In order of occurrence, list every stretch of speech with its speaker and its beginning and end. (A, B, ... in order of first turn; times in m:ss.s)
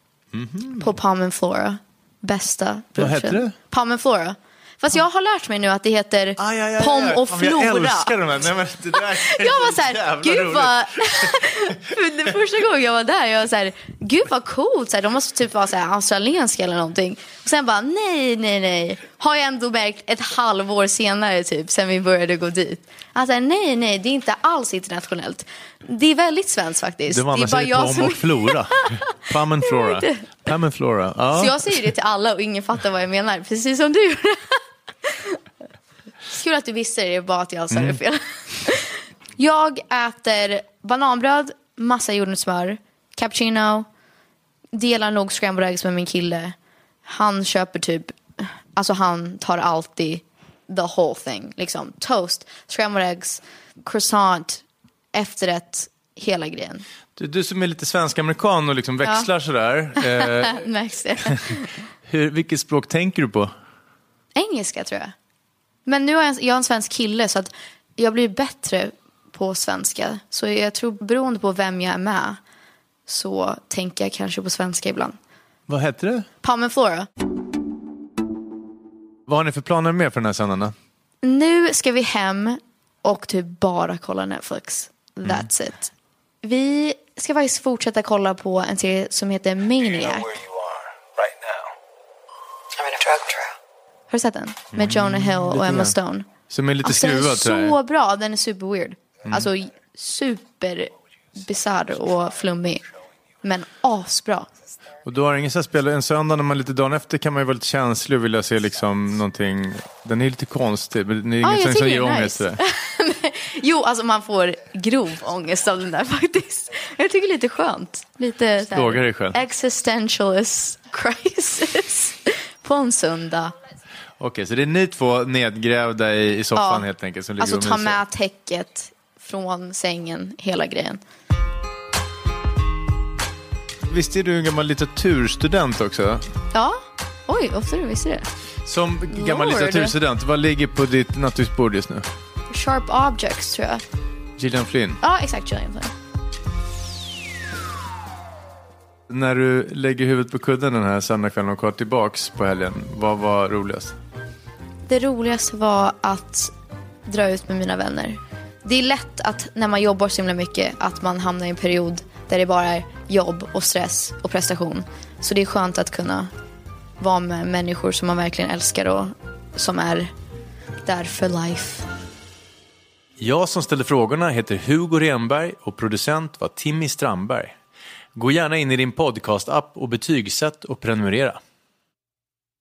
0:00.3-0:00.9 A
0:00.8-0:08.3 B
0:03.0-0:03.5 A
0:06.4-0:11.5 A
0:08.9-0:30.2 B
0:27.1-0:31.7 A
0:31.3-0:35.4 B
0:36.3-0:43.8 B
0:37.7-0:38.0 A
0:44.7-0:56.8 B
0:57.2-1:00.6 A
0:59.0-0:59.3 B
1:00.0-1:01.8 B
1:02.0-1:03.5 A
1:04.3-1:05.1 B
1:05.8-1:12.4 B
1:13.1-1:15.2 B
1:15.7-1:16.2 A
1:16.4-1:17.1 B
1:19.3-1:20.7 A
1:21.2-1:25.9 B
1:26.4-1:30.4 B
1:32.8-1:33.4 B
1:34.1-1:36.3 B
1:34.7-1:35.9 A
1:36.5-1:37.7 A
1:36.8-1:42.8 B
1:43.4-1:44.5 B
1:45.0-1:52.6 A
1:51.4-2:03.5 B
1:58.7-1:59.4 A
2:04.2-2:08.0 A
2:06.5-2:06.9 B
2:07.4-2:11.0 B
2:13.9-2:16.2 A
2:16.5-2:18.3 B
2:18.6-2:22.1 A
2:19.1-2:19.9 B
2:22.5-2:23.8 B
2:24.4-2:25.0 A
2:25.0-2:25.9 B
2:29.1-2:33.9 A
2:34.9-2:36.5 B
2:37.0-2:46.3 B
2:47.0-2:50.1 B
2:50.8-2:51.9 B
2:53.2-2:57.5 A
2:58.2-3:01.4 A